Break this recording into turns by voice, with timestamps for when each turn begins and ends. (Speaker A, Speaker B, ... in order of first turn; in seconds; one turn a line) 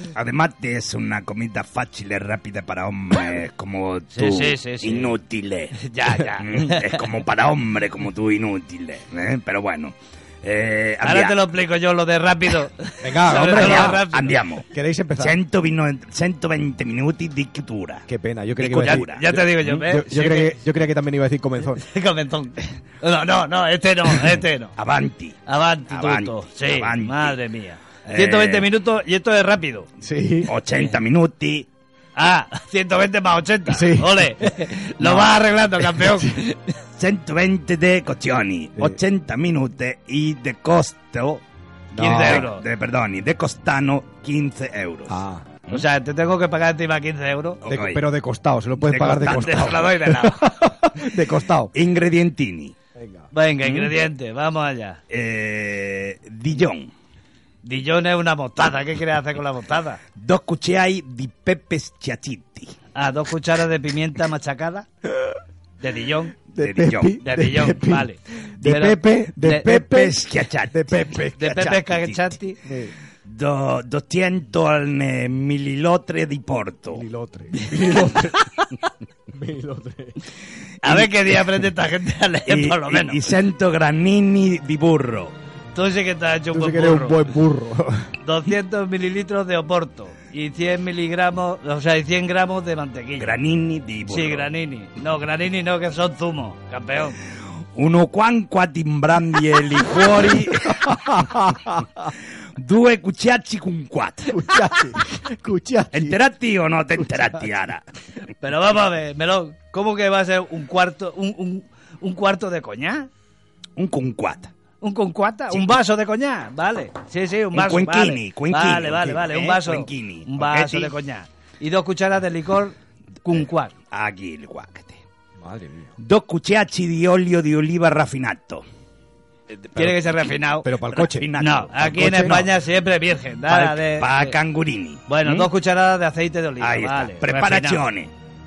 Speaker A: 0.1-5.8
Speaker B: 4.1-5.1
Speaker B: 5.8-7.0
Speaker A: 6.4-11.4
Speaker B: 11.0-14.4
Speaker C: 13.0-14.0
Speaker A: 13.4-14.6
Speaker C: 14.7-15.3
Speaker A: 15.2-18.1
Speaker C: 18.1-21.8
Speaker B: 18.6-20.6
Speaker A: 18.6-19.2
Speaker B: 21.8-24.7
Speaker A: 24.8-27.4
Speaker B: 25.5-29.9
Speaker A: 28.0-28.6
Speaker C: 30.0-30.5
Speaker A: 30.5-31.7
Speaker B: 32.1-36.6
Speaker C: 33.7-34.3
Speaker A: 37.0-41.4
Speaker C: 41.9-42.5
Speaker B: 42.0-42.6
Speaker A: 42.0-45.8
Speaker C: 45.1-45.5
Speaker B: 45.7-47.6
Speaker A: 47.6-48.0
Speaker C: 47.7-51.7
Speaker A: 48.9-49.8
Speaker B: 49.0-50.5
Speaker A: 51.7-52.7
Speaker C: 53.0-53.3
Speaker B: 53.3-55.0
Speaker A: 53.6-53.9
Speaker A: 55.1-56.9
Speaker B: 57.6-60.0
Speaker A: 60.2-62.7
Speaker B: 62.9-64.9
Speaker B: 65.8-66.3
Speaker A: 66.5-67.2
Speaker C: 66.5-72.0
Speaker B: 67.2-69.7
Speaker A: 69.5-71.0
Speaker B: 71.4-72.6
Speaker C: 72.6-72.9
Speaker A: 73.2-77.0
Speaker C: 76.9-78.5
Speaker C: 79.3-80.2
Speaker B: 80.8-83.3
Speaker A: 82.5-85.3
Speaker B: 85.7-87.3
Speaker C: 86.5-88.1
Speaker B: 88.2-93.3
Speaker A: 93.2-94.5
Speaker B: 94.1-97.2
Speaker A: 97.8-101.4
Speaker C: 100.7-101.8
Speaker A: 102.6-104.4
Speaker C: 104.3-106.2
Speaker A: 105.9-107.8
Speaker B: 108.4-113.1
Speaker A: 113.8-114.5
Speaker B: 114.8-123.7
Speaker A: 117.5-120.9
Speaker A: 123.9-125.0
Speaker C: 125.4-125.9
Speaker A: 126.0-128.6
Speaker B: 129.8-130.7
Speaker C: 130.6-131.3
Speaker A: 130.9-132.5
Speaker B: 131.4-134.3
Speaker C: 131.8-132.4
Speaker A: 133.5-135.5
Speaker B: 135.1-137.8
Speaker A: 136.6-138.1